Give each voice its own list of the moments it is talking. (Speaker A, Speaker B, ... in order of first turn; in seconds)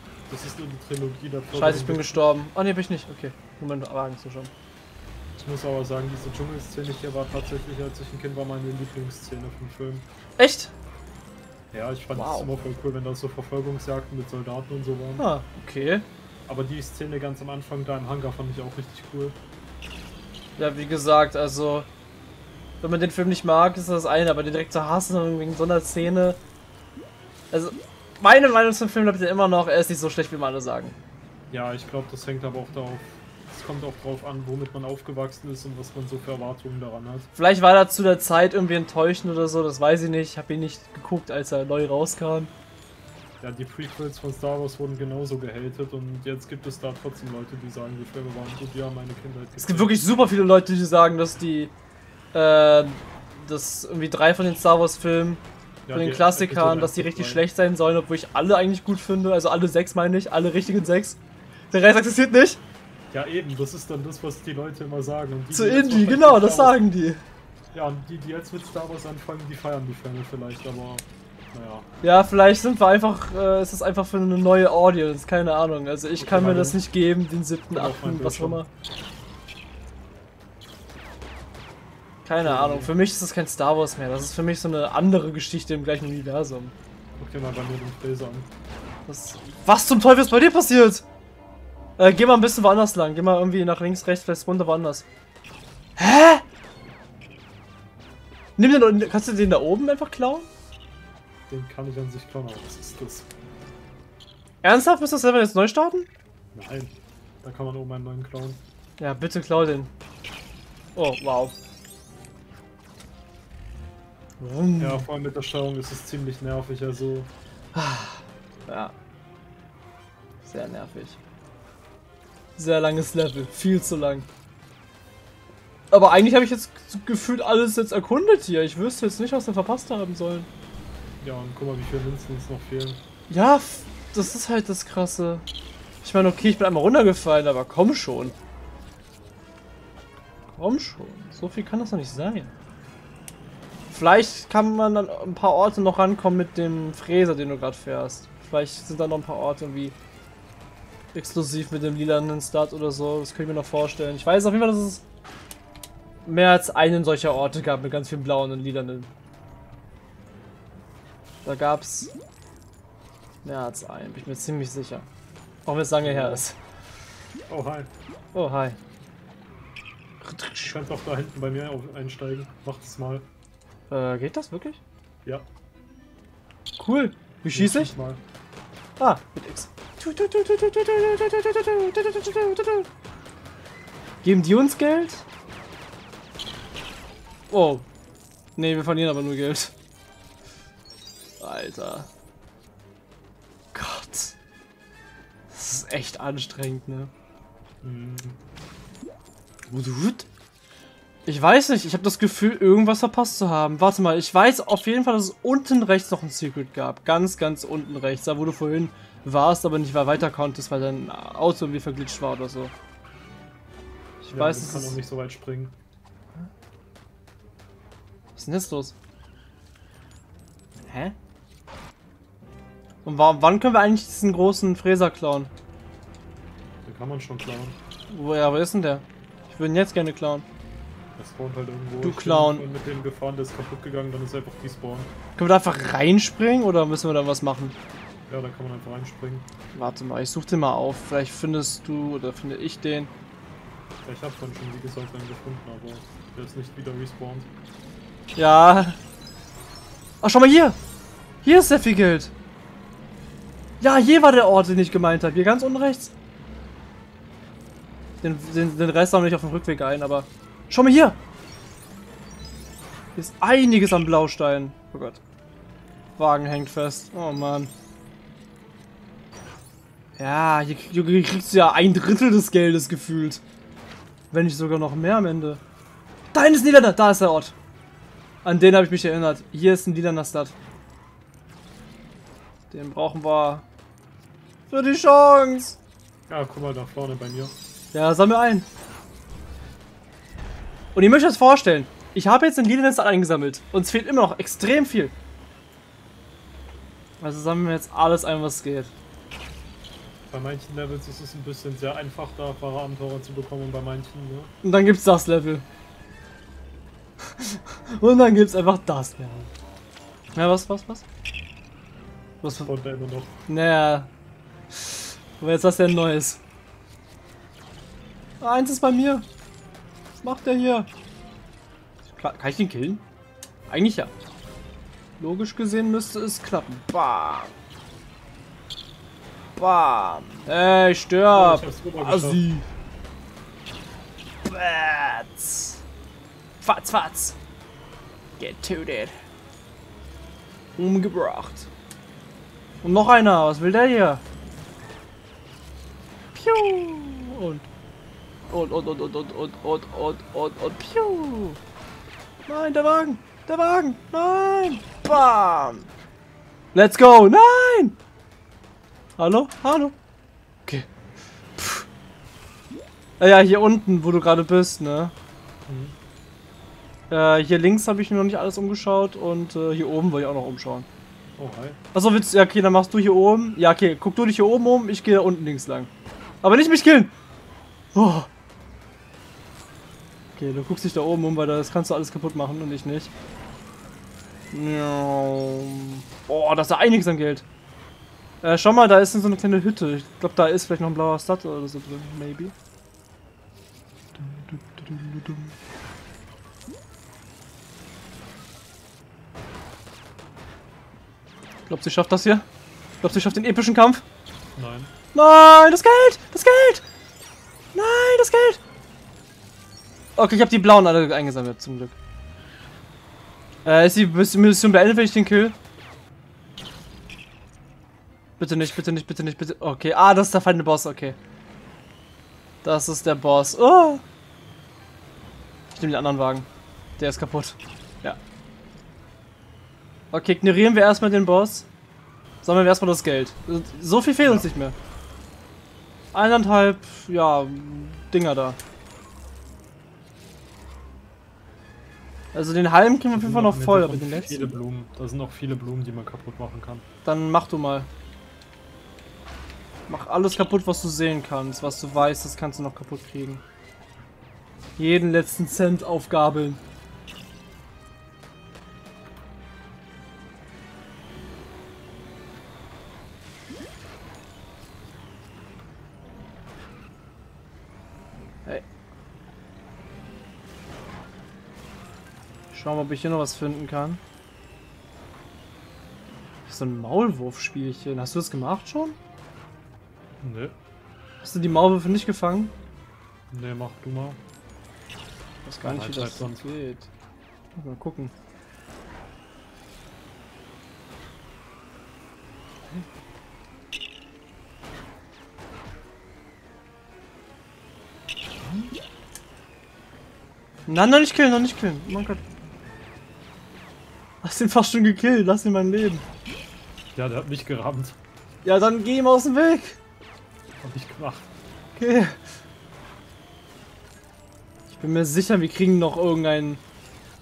Speaker A: 0.3-2.2, 5.4-10.1, 11.7-15.2, 16.5-19.4, 31.5-37.3, 43.4-50.2, 55.9-57.4, 63.1-66.8, 67.7-71.9, 76.2-76.8, 77.7-78.7, 82.4-83.0, 87.2-88.5, 101.5-103.3, 106.5-108.6, 114.8-117.3, 131.2-133.0, 166.0-166.4, 167.5-167.9, 170.6-173.3, 177.5-178.2, 197.8-198.4, 214.3-215.8, 226.8-227.8, 231.2-235.1, 238.3-239.5, 244.1-247.5, 286.3-287.6, 300.3-304.5, 312.6-313.3, 331.3-332.4, 365.7-366.0, 371.4-371.8, 404.6-404.9, 434.2-434.5, 443.1-446.9, 480.2-480.6, 483.3-484.2, 485.6-486.5, 506.9-508.0, 510.6-511.3
Speaker B: 1.6-4.5, 10.4-10.7, 12.1-12.5, 15.2-16.1, 20.6-21.9, 22.8-26.4, 27.5-31.0, 37.4-42.5, 49.6-51.7, 52.3-61.2, 61.7-62.6, 65.5-67.2, 72.0-78.7, 82.2-86.7, 89.1-91.0, 92.0-95.1, 96.0-96.4, 98.6-100.5, 104.6-106.1, 109.0-109.9, 111.0-111.6, 114.4-115.1, 117.8-118.9, 120.4-121.2, 122.6-124.3, 125.9-130.5, 133.3-135.4, 136.0-138.4, 140.6-142.5, 143.9-150.0, 151.1-155.0, 156.2-159.1, 161.4-162.1, 163.4-165.1, 165.7-166.6, 168.3-168.8, 170.2-170.7, 173.9-174.8, 176.8-177.9, 179.0-182.9, 184.2-185.3, 187.5-187.9, 188.6-189.7, 191.4-192.1, 193.7-194.4, 195.5-197.1, 199.7-200.3, 201.3-212.7, 214.2-215.0, 218.4-218.9, 220.9-221.2, 223.1-225.5, 228.1-230.5, 232.0-232.7, 235.4-237.8, 239.8-243.1, 248.4-249.0, 250.2-250.8, 251.4-252.3, 253.8-256.1, 258.2-261.2, 263.2-265.2, 266.2-267.7, 270.2-273.4, 274.3-275.6, 276.3-277.6, 278.4-280.6, 282.7-283.7, 284.7-285.8, 287.9-288.7, 290.9-295.1, 297.2-298.9, 304.6-305.7, 307.2-309.5, 310.4-311.1, 312.4-312.7, 313.5-314.1, 314.7-316.4, 318.4-319.3, 320.2-320.9, 322.1-323.0, 323.7-324.1, 325.2-327.5, 329.6-332.6, 334.4-335.8, 336.6-337.4, 338.4-339.1, 340.8-341.7, 342.8-344.2, 346.4-347.7, 348.5-351.6, 352.5-355.9, 356.7-358.0, 359.2-360.0, 361.6-361.9, 363.2-365.1, 367.1-370.9, 371.9-375.9, 376.4-377.1, 377.9-378.3, 380.4-383.1, 384.5-387.5, 388.4-392.5, 394.2-395.5, 401.7-402.5, 403.0-404.0, 405.1-406.9, 407.7-408.6, 410.2-412.0, 413.6-415.6, 418.4-421.2, 422.6-424.0, 425.8-428.2, 430.1-431.7, 432.4-434.8, 436.1-438.6, 442.3-444.6, 447.1-447.9, 449.9-453.4, 454.8-456.6, 472.5-474.0, 476.5-479.0, 481.2-482.5, 485.5-486.9, 487.6-488.1, 500.7-502.2, 504.2-506.1, 508.4-509.8, 511.8-512.2, 514.7-516.6